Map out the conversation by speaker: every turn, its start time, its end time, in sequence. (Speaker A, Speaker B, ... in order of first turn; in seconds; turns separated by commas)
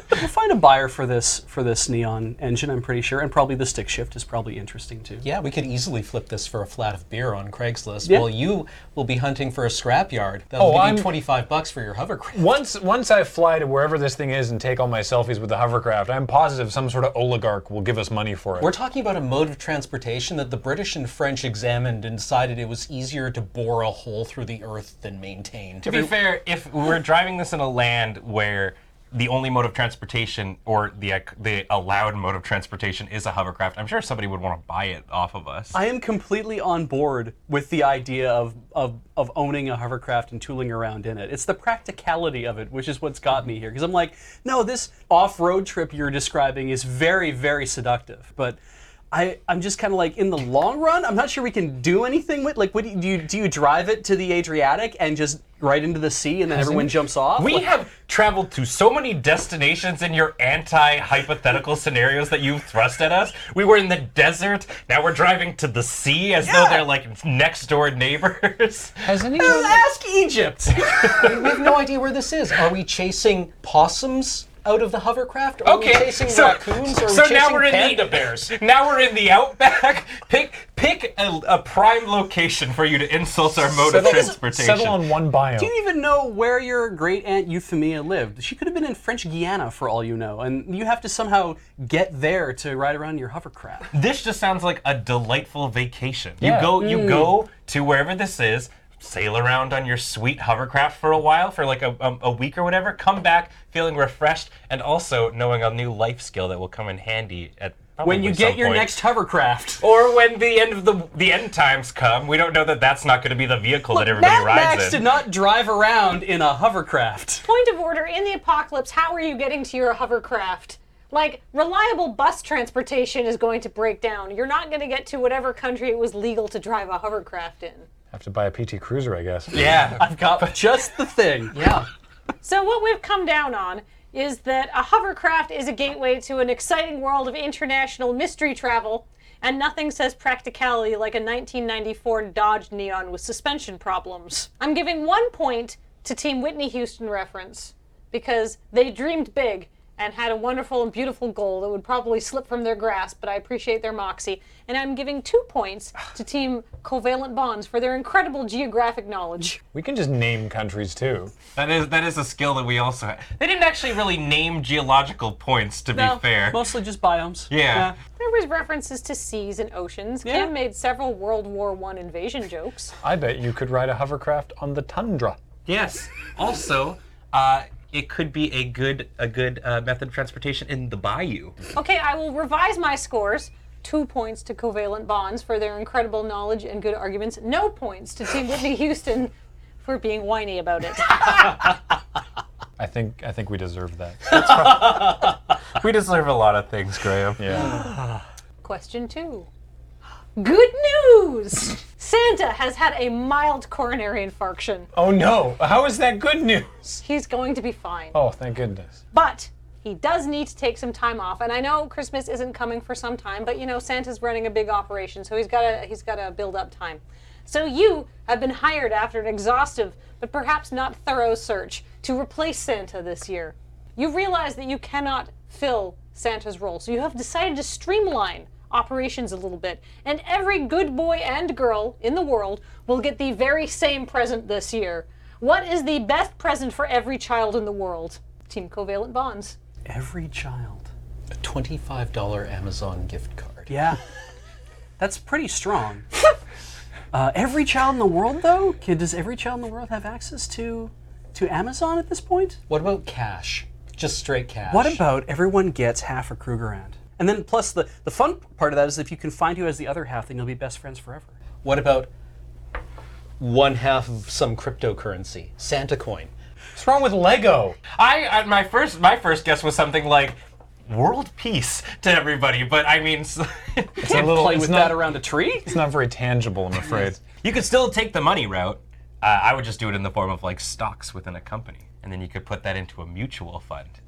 Speaker A: 0.1-5.3, Speaker B: 5.2-12.5, Speaker C: 10.6-11.1, Speaker C: 12.3-18.7, Speaker B: 18.6-25.9, Speaker D: 25.8-35.8, Speaker A: 35.7-48.6, Speaker A: 49.1-57.7, Speaker C: 56.5-56.9, Speaker D: 57.4-69.3, Speaker A: 66.4-66.9, Speaker C: 69.0-69.9, Speaker A: 69.4-71.7, Speaker D: 70.9-71.4, Speaker B: 71.1-78.6, Speaker D: 75.6-85.0, Speaker C: 83.7-85.7, Speaker A: 83.9-84.4, Speaker A: 85.6-93.9, Speaker D: 93.9-109.0, Speaker C: 96.4-96.8, Speaker A: 96.8-97.3, Speaker A: 108.0-109.8, Speaker D: 109.8-115.0, Speaker A: 113.9-117.5, Speaker E: 117.4-127.9, Speaker C: 128.1-129.7, Speaker A: 129.5-131.6, Speaker D: 129.6-130.5, Speaker B: 131.5-131.9, Speaker E: 132.4-159.6, Speaker C: 159.7-161.3, Speaker D: 161.6-166.6, Speaker A: 165.9-168.0, Speaker D: 167.5-167.9, Speaker E: 168.2-172.9, Speaker A: 170.2-170.5, Speaker C: 173.0-175.4, Speaker D: 175.7-181.6, Speaker E: 181.8-191.6, Speaker C: 192.8-194.6, Speaker D: 194.3-198.2, Speaker C: 197.4-197.8, Speaker E: 198.6-199.5, Speaker E: 200.4-204.9, Speaker C: 204.9-207.0, Speaker E: 207.0-208.2, Speaker C: 208.1-209.0, Speaker E: 209.1-239.6, Speaker A: 239.9-240.9, Speaker B: 241.4-243.8, Speaker A: 243.7-244.0, Speaker A: 245.0-246.1, Speaker A: 247.1-252.6, Speaker B: 252.7-255.0, Speaker A: 254.7-261.4, Speaker B: 261.6-262.1, Speaker B: 263.4-266.3, Speaker C: 266.8-267.8, Speaker D: 267.9-274.3, Speaker A: 274.0-275.8, Speaker C: 274.1-275.0, Speaker C: 275.7-277.2, Speaker D: 277.4-283.9